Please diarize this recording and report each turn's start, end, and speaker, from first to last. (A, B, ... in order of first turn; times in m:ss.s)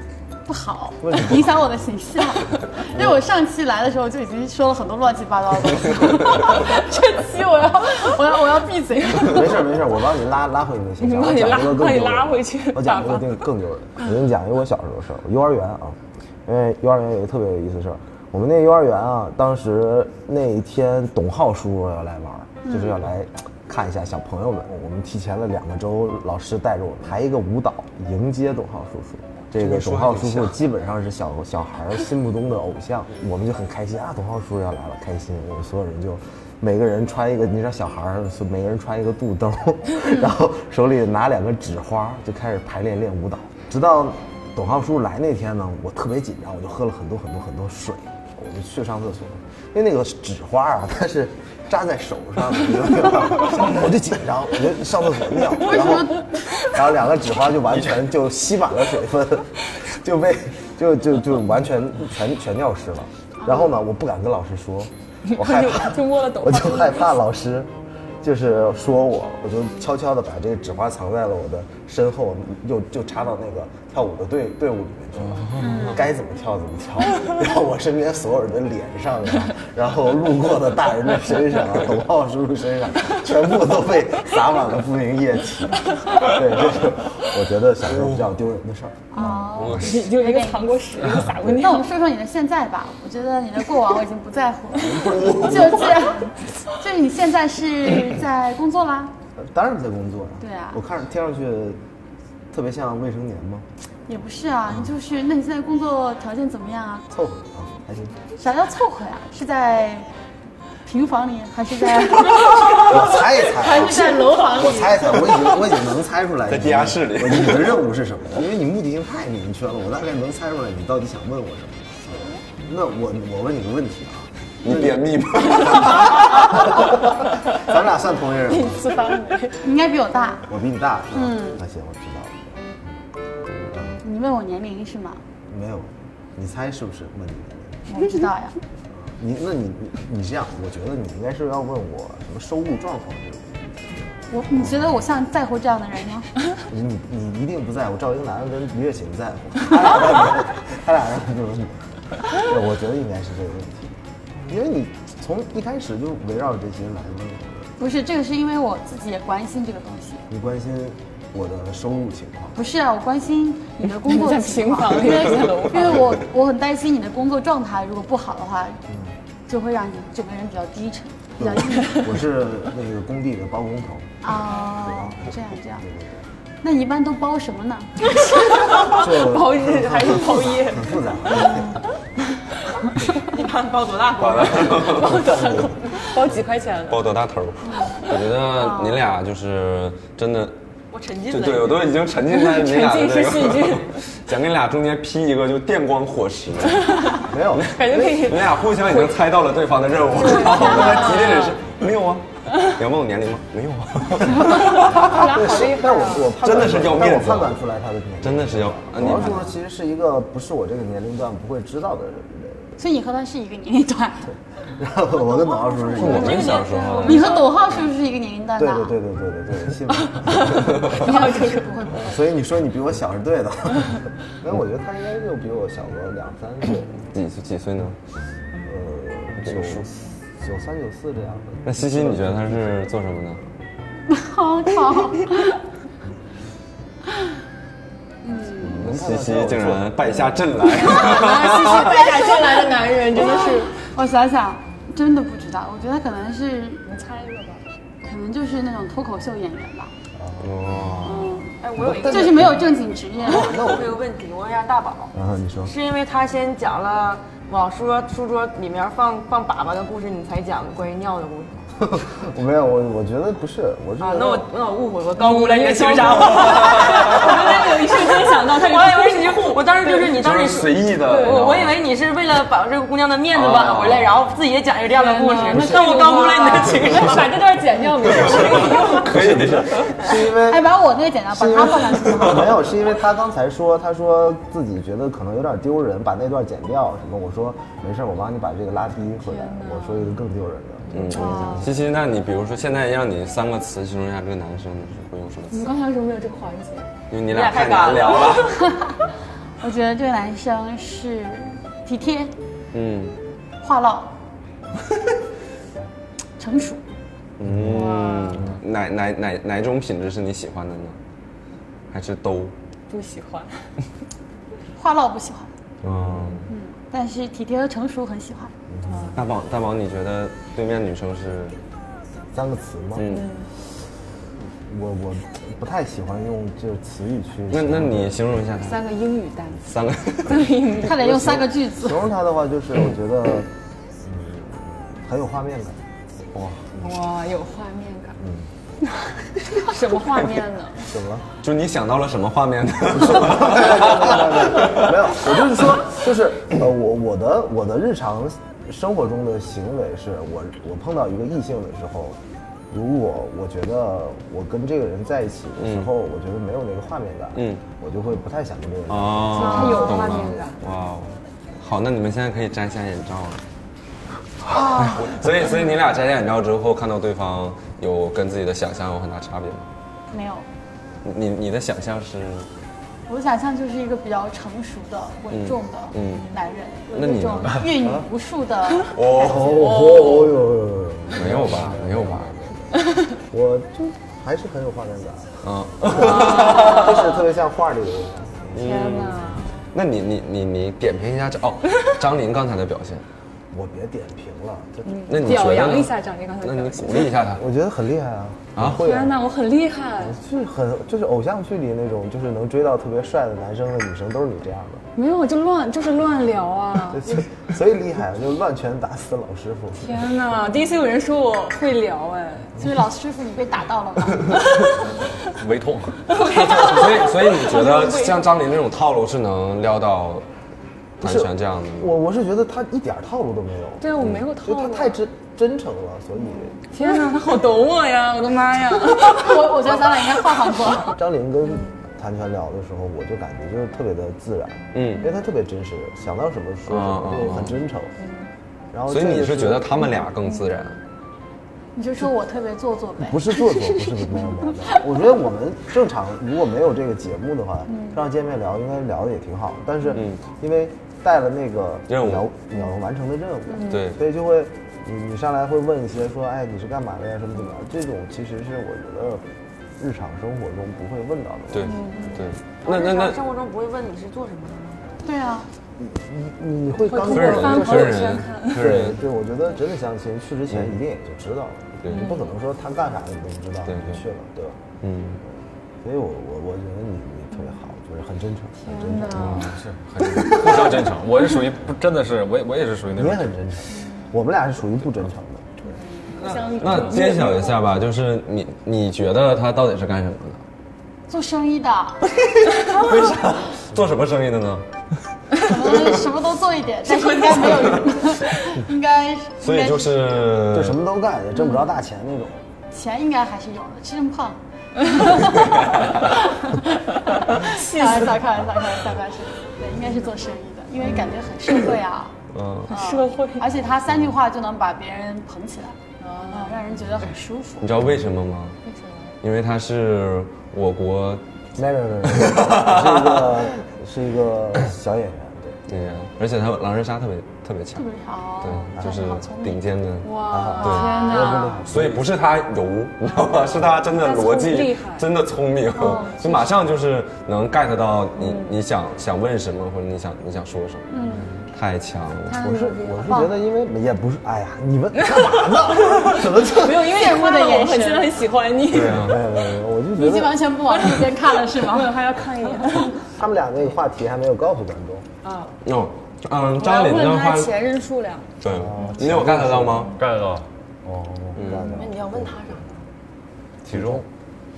0:00.4-0:09.6 A
0:01.0-0:01.6 B
0:02.9-0:03.2 B
0:06.6-0:09.4 C
0:09.2-1:07.7 B
0:11.0-0:13.4 C
0:22.6-0:23.0 A
0:29.5-0:30.5 D
0:55.5-0:56.3 A
1:03.4-1:03.8 A
1:05.2-1:07.2 C
1:08.2-1:29.3 B
1:15.4-1:15.9 D
1:15.6-1:16.0 A
1:29.1-1:30.7 A
1:29.2-1:31.9 C
1:29.4-1:30.1 D
1:31.4-1:39.1 A
1:34.9-1:35.8 B
1:39.4-1:41.8 B
1:40.4-1:40.8 A
1:42.5-1:43.6 B
1:44.1-1:47.1 A
1:47.1-1:48.2 B
1:48.3-1:50.1 A
1:50.8-1:55.5 A
1:52.8-2:05.0 B
1:56.5-1:57.8 D
2:04.6-2:06.7 D
2:05.5-2:07.0 B
2:07.5-2:08.9 B
2:08.5-2:09.6 C
2:09.5-2:10.4 A
2:10.4-2:12.5 B
2:11.1-2:11.6 A
2:14.0-2:15.2 A
2:15.5-2:17.9 B
2:17.9-2:18.6 A
2:19.1-2:24.7 B
2:24.3-2:26.3 A
2:26.7-2:37.7 B
2:37.8-2:40.2 A
2:40.3-2:42.6 B
2:42.5-2:48.8 A
2:43.8-2:46.1 C
2:48.9-2:49.2 B
2:49.5-2:52.1 A
2:51.4-2:56.2 B
2:54.2-2:55.8 A
2:56.6-2:57.9 A
2:58.3-3:01.7 C
2:58.8-3:01.8 B
3:03.2-3:05.1 E
3:04.2-3:05.5 D
3:04.9-3:07.0 C
3:05.0-3:05.8 B
3:06.9-3:10.6 D
3:07.7-3:09.0 A
3:10.9-3:12.0 E
3:11.3-3:25.2 D
3:12.3-3:14.0 C
3:16.8-3:19.1 C
3:17.2-3:18.3 B
3:20.2-3:21.5 C
3:24.4-3:26.4 C
3:24.4-3:32.8 B
3:26.3-3:27.6 D
3:28.2-3:29.6 D
3:32.8-3:34.3 A
3:34.8-3:36.5 B
3:35.2-3:38.9 A
3:35.9-3:37.3 D
3:36.0-3:37.5 E
3:36.9-3:37.5 C
3:38.6-3:41.0 B
3:40.0-3:41.8 C
3:40.8-3:42.3 A
3:41.9-3:46.9 B
3:47.0-3:48.0 D
3:48.6-3:49.9 B
3:49.4-3:49.9 D
3:50.4-3:52.8 B
3:51.6-3:53.4 D
3:54.1-3:55.6 A
3:58.2-3:58.8 A
3:58.6-4:00.0 B
3:58.8-4:02.1 D
4:00.7-4:03.8 C
4:03.1-4:06.8 A
4:06.8-4:07.6 C
4:08.0-4:09.9 A
4:10.2-4:12.7 B
4:10.4-4:11.3 D
4:11.0-4:13.6 A
4:11.6-4:12.6 E
4:13.2-4:15.1 E
4:13.2-4:13.9 B
4:15.1-4:15.7 B
4:15.6-4:21.7 E
4:21.9-4:24.5 B
4:24.0-4:37.3 E
4:25.2-4:29.9 C
4:26.3-4:27.4 D
4:30.0-4:31.8 D
4:31.1-4:31.4 C
4:33.3-4:34.2 D
4:34.9-4:39.1 C
4:38.1-4:40.1 D
4:39.1-4:40.7 B
4:40.3-4:42.7 A
4:41.3-4:51.7 B
4:49.2-4:50.2 C
4:50.9-4:55.7 D
4:51.1-4:51.7 A
4:55.5-4:56.9 C
4:57.1-4:58.6 D
4:57.3-4:58.5 E
4:58.6-4:58.9 A
4:59.6-5:02.3 A
5:02.7-5:03.2 D
5:03.6-5:04.1 A
5:06.4-5:06.8 A
5:07.4-5:11.0 D
5:07.7-5:08.4 C
5:11.9-5:12.5 D
5:12.9-5:13.7 C
5:14.8-5:15.5 A
5:15.8-5:16.5 D
5:16.5-5:18.5 A
5:18.7-5:19.2 B
5:18.9-5:19.2 C
5:19.1-5:21.6 D
5:22.3-5:23.1 B
5:22.9-5:23.3 D
5:23.1-5:23.5 C
5:24.6-5:28.3 B
5:27.5-5:28.9 D
5:28.6-5:31.0 C
5:29.6-5:30.6 D
5:30.8-5:32.1 A
5:30.8-5:35.8 B
5:36.3-5:36.6 D
5:36.8-5:38.2 C
5:38.2-5:38.5 B
5:39.5-5:40.9 C
5:40.8-5:41.2 B
5:41.4-5:45.0 D
5:42.9-5:52.2 B
5:52.7-6:00.2 B
5:55.6-5:55.9 D
5:57.3-5:57.6 D
5:58.9-6:03.4 D
5:59.3-6:00.6 C
6:04.5-6:09.7 D
6:04.5-6:05.0 A
6:10.1-6:10.4 A
6:11.0-6:12.5 D
6:13.1-6:19.3 A
6:15.3-6:16.3 D
6:16.9-6:17.8 D
6:17.8-6:18.1 B
6:18.9-6:20.3 D
6:19.1-6:28.8 B
6:19.6-6:20.3 C
6:21.1-6:22.3 D
6:25.4-6:27.0 D
6:28.5-6:33.0 D
6:28.6-6:29.5 C
6:33.5-6:35.1 B
6:34.8-6:37.1 C
6:35.1-6:37.4 D
6:37.4-6:39.2 B
6:38.5-6:38.9 D
6:38.6-6:40.2 C
6:40.0-6:44.8 B
6:44.9-6:47.2 C
6:46.9-6:50.0 B
6:49.8-6:52.5 C
6:52.6-6:54.4 A
6:54.9-6:56.3 F
6:56.1-6:58.3 C
6:56.2-7:00.2 D
7:01.0-7:06.6 B
7:01.0-7:02.0 D
7:03.8-7:05.0 C
7:04.0-7:04.2 D
7:06.7-7:09.8 C
7:09.0-7:10.9 A
7:10.8-7:17.9 B
7:14.7-7:15.1 D
7:16.6-7:17.6 D
7:18.0-7:18.3 C
7:18.7-7:19.8 B
7:18.9-7:20.8 D
7:21.8-7:23.8 A
7:23.0-7:39.2 B
7:27.7-7:28.0 C
7:29.9-7:30.2 D
7:31.9-7:32.3 D
7:33.5-7:33.8 C
7:33.6-7:34.0 D
7:39.8-7:42.1 B
7:41.5-7:43.2 D
7:41.6-7:42.1 C
7:42.6-7:44.9 E
7:45.0-7:45.5 A
7:45.8-7:54.6 B
7:46.8-7:48.8 C
7:47.1-7:49.0 D
7:50.5-7:50.8 D
7:51.8-7:52.1 D
7:51.9-7:52.3 C
7:53.6-7:54.0 D
7:54.8-7:55.2 D
7:55.8-7:59.3 B
7:58.6-7:59.5 C
7:59.1-8:03.3 F
7:59.1-7:59.6 D
8:02.9-8:05.5 B
8:06.0-8:07.6 C
8:06.2-8:06.5 F
8:06.5-8:10.4 D
8:11.1-8:12.0 A
8:12.6-8:14.7 D
8:15.4-8:20.0 A
8:15.5-8:15.9 D
8:16.8-8:18.0 E
8:19.4-8:20.8 D
8:20.5-8:22.4 B
8:22.7-8:32.1 A
8:27.4-8:28.2 C
8:32.3-8:32.7 D
8:32.7-8:33.5 C
8:32.7-8:35.8 A
8:36.0-8:36.6 C
8:36.3-8:37.7 A
8:37.6-8:38.6 D
8:38.6-8:39.1 C
8:39.2-8:41.2 D
8:41.6-8:45.6 B
8:42.1-8:43.4 D
8:45.7-8:47.8 D
8:47.8-8:49.8 A
8:48.4-9:00.8 D
8:48.8-8:49.0 B
8:50.0-8:51.7 C
8:50.2-8:52.1 B
8:54.0-8:55.1 C
8:55.7-8:56.6 A
8:58.2-8:58.6 C
9:00.9-9:01.3 A
9:00.9-9:01.3 C
9:01.5-9:02.5 D
9:02.3-9:03.3 C
9:02.4-9:07.1 B
9:03.0-9:03.3 A
9:06.0-9:09.2 C
9:06.6-9:08.2 A
9:08.7-9:09.2 D
9:08.7-9:10.5 B
9:10.0-9:11.9 A
9:10.7-9:13.0 C
9:13.0-9:15.1 B
9:15.2-9:15.5 C
9:15.6-9:17.5 D
9:16.6-9:18.3 C
9:18.4-9:20.0 D
9:18.4-9:19.9 B
9:20.0-9:20.4 F
9:20.8-9:22.6 B
9:21.4-9:21.7 D
9:21.5-9:22.7 E
9:23.6-9:24.0 F
9:23.7-9:24.0 B